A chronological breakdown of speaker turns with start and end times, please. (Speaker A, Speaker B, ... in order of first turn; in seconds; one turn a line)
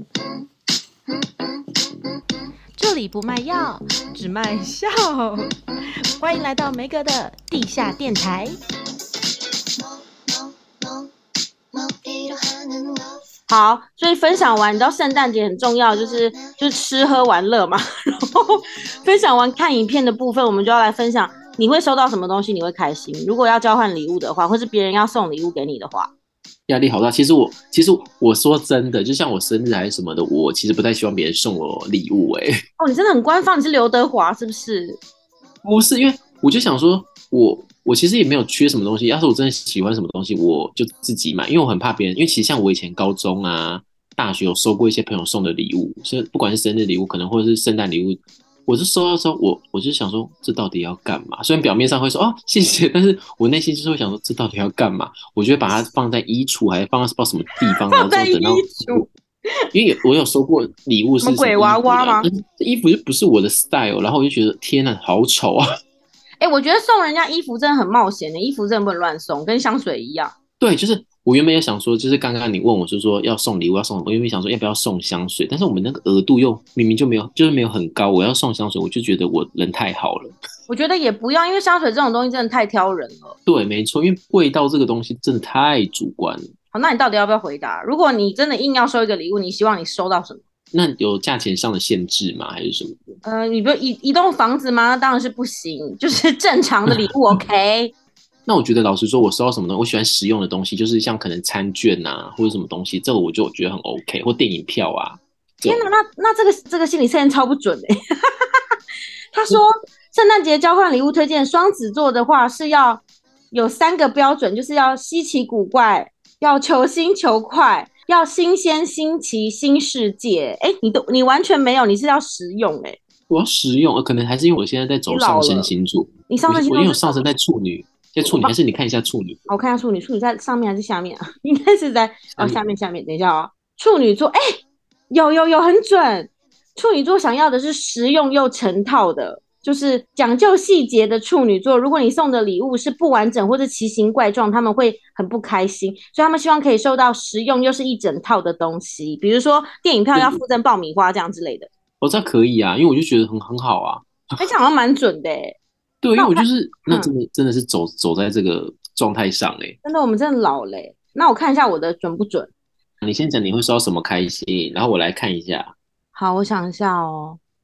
Speaker A: 1.2-2.1
Speaker B: 2.8-5.5
Speaker B: 6.2-8.5
Speaker A: 9.9-11.1
Speaker A: 11.7-13.2
Speaker B: 13.5-26.1
Speaker A: 16.0-16.6
Speaker C: 26.7-32.6
Speaker B: 32.8-35.0
Speaker C: 35.6-59.0
Speaker B: 57.9-59.1
Speaker C: 59.7-65.7
Speaker B: 61.2-62.3
Speaker B: 66.4-70.3
Speaker C: 70.6-80.3
Speaker B: 80.7-83.3
Speaker C: 83.5-86.5
Speaker B: 86.7-90.4
Speaker C: 90.7-93.1
Speaker B: 93.2-97.9
Speaker C: 98.5-105.9
Speaker B: 105.7-107.9
Speaker B: 109.3-123.0
Speaker C: 123.3-129.4
Speaker B: 125.1-125.7
Speaker B: 126.3-127.3
Speaker B: 128.2-128.5
Speaker B: 129.5-134.4
Speaker B: 135.1-151.7
Speaker C: 150.2-150.4
Speaker C: 152.0-154.4
Speaker B: 154.4-155.6
Speaker C: 156.0-159.8
Speaker B: 156.2-157.1
Speaker B: 159.8-162.5
Speaker C: 163.0-165.7
Speaker B: 166.2-167.4